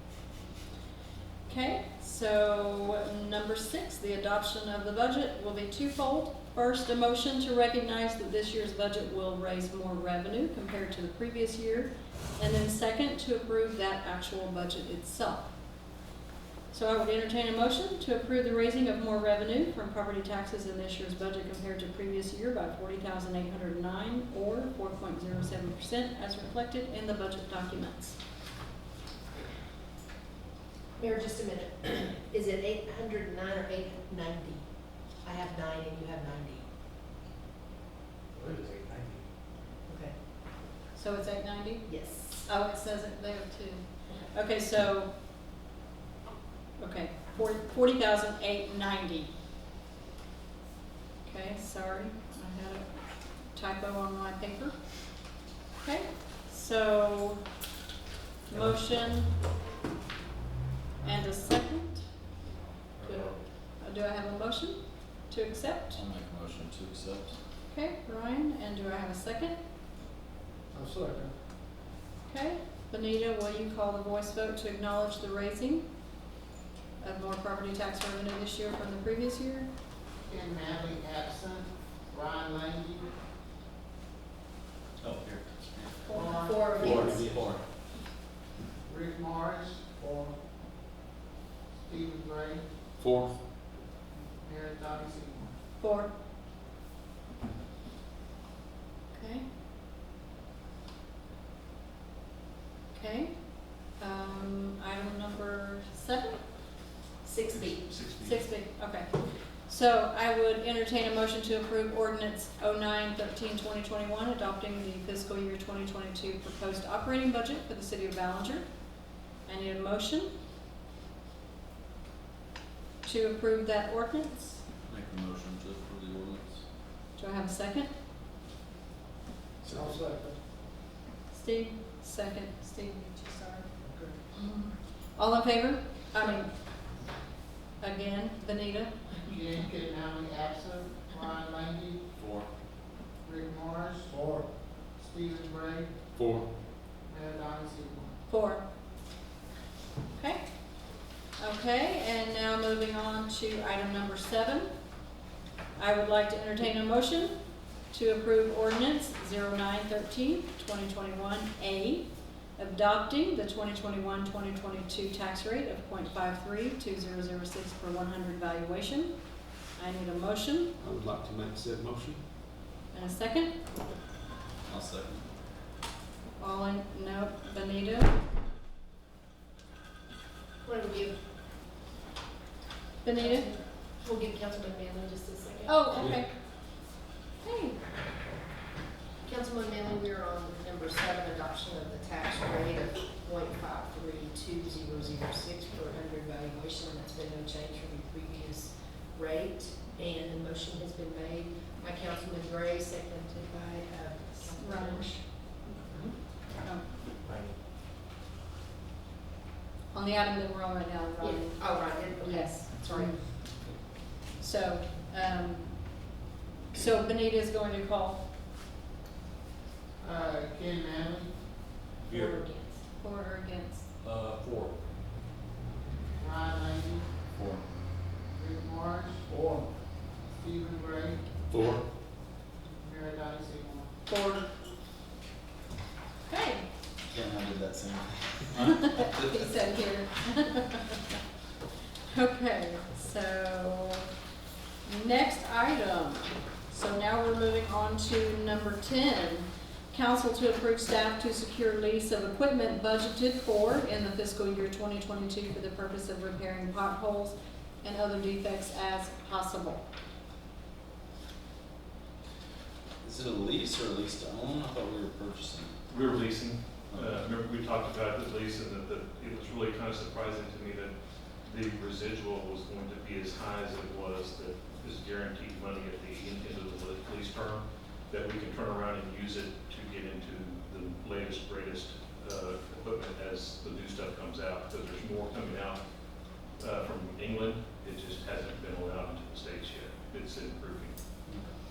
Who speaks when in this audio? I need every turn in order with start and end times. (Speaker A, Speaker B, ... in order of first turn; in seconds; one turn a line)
Speaker A: 1.5-15.5
Speaker A: 16.7-28.2
Speaker B: 31.0-34.7
Speaker B: 35.2-36.6
Speaker B: 39.9-40.1
Speaker A: 41.0-45.1
Speaker B: 41.9-42.4
Speaker A: 46.8-49.3
Speaker A: 51.2-53.0
Speaker A: 53.5-54.7
Speaker A: 55.8-57.4
Speaker A: 58.5-59.3
Speaker A: 61.0-62.1
Speaker A: 63.0-66.0
Speaker C: 65.9-67.3
Speaker A: 67.7-69.6
Speaker D: 70.7-71.3
Speaker A: 72.3-75.9
Speaker A: 77.0-79.7
Speaker E: 80.2-83.1
Speaker C: 85.0-86.2
Speaker A: 86.1-87.1
Speaker B: 86.1-87.2
Speaker E: 86.1-87.5
Speaker C: 86.8-87.6
Speaker D: 87.0-87.3
Speaker E: 88.8-90.3
Speaker E: 91.8-92.6
Speaker E: 94.3-95.5
Speaker A: 95.8-96.1
Speaker A: 99.1-99.5
Speaker A: 102.9-103.3
Speaker A: 103.8-106.4
Speaker B: 107.2-107.9
Speaker F: 107.4-108.4
Speaker A: 108.2-118.6
Speaker A: 119.4-120.3
Speaker A: 123.0-124.6
Speaker C: 124.9-126.6
Speaker A: 127.2-127.9
Speaker C: 129.6-130.0
Speaker D: 129.7-130.3
Speaker A: 131.3-133.7
Speaker D: 133.8-134.1
Speaker A: 134.3-136.5
Speaker A: 137.8-139.0
Speaker E: 139.2-142.0
Speaker C: 142.2-142.5
Speaker E: 143.2-144.3
Speaker E: 144.9-145.9
Speaker E: 147.1-148.1
Speaker A: 148.3-148.6
Speaker A: 150.1-150.4
Speaker A: 151.4-154.7
Speaker A: 155.8-157.3
Speaker A: 157.9-169.1
Speaker A: 169.7-170.7
Speaker D: 170.8-172.2
Speaker A: 172.9-173.5
Speaker C: 174.7-175.3
Speaker A: 176.4-178.1
Speaker B: 180.6-181.2
Speaker A: 183.0-183.5
Speaker B: 183.2-185.8
Speaker A: 185.7-186.3
Speaker A: 187.4-187.8
Speaker B: 189.2-205.1
Speaker A: 204.6-205.2
Speaker A: 206.6-206.9
Speaker B: 207.2-207.5
Speaker A: 209.9-213.5
Speaker B: 211.2-213.2
Speaker A: 214.4-216.0
Speaker A: 216.7-218.2
Speaker E: 220.0-221.3
Speaker A: 222.1-223.9
Speaker B: 222.2-222.5
Speaker F: 224.0-224.7
Speaker E: 226.2-227.1
Speaker C: 227.3-227.6
Speaker E: 228.3-229.6
Speaker E: 230.3-231.2
Speaker D: 231.5-231.8
Speaker E: 232.8-233.9
Speaker A: 234.1-234.4
Speaker A: 236.3-236.7
Speaker C: 237.1-239.4
Speaker A: 238.6-241.0
Speaker A: 242.1-244.0
Speaker A: 244.8-259.8
Speaker C: 263.0-265.7
Speaker F: 265.9-270.9
Speaker F: 271.4-285.8
Speaker F: 286.6-290.9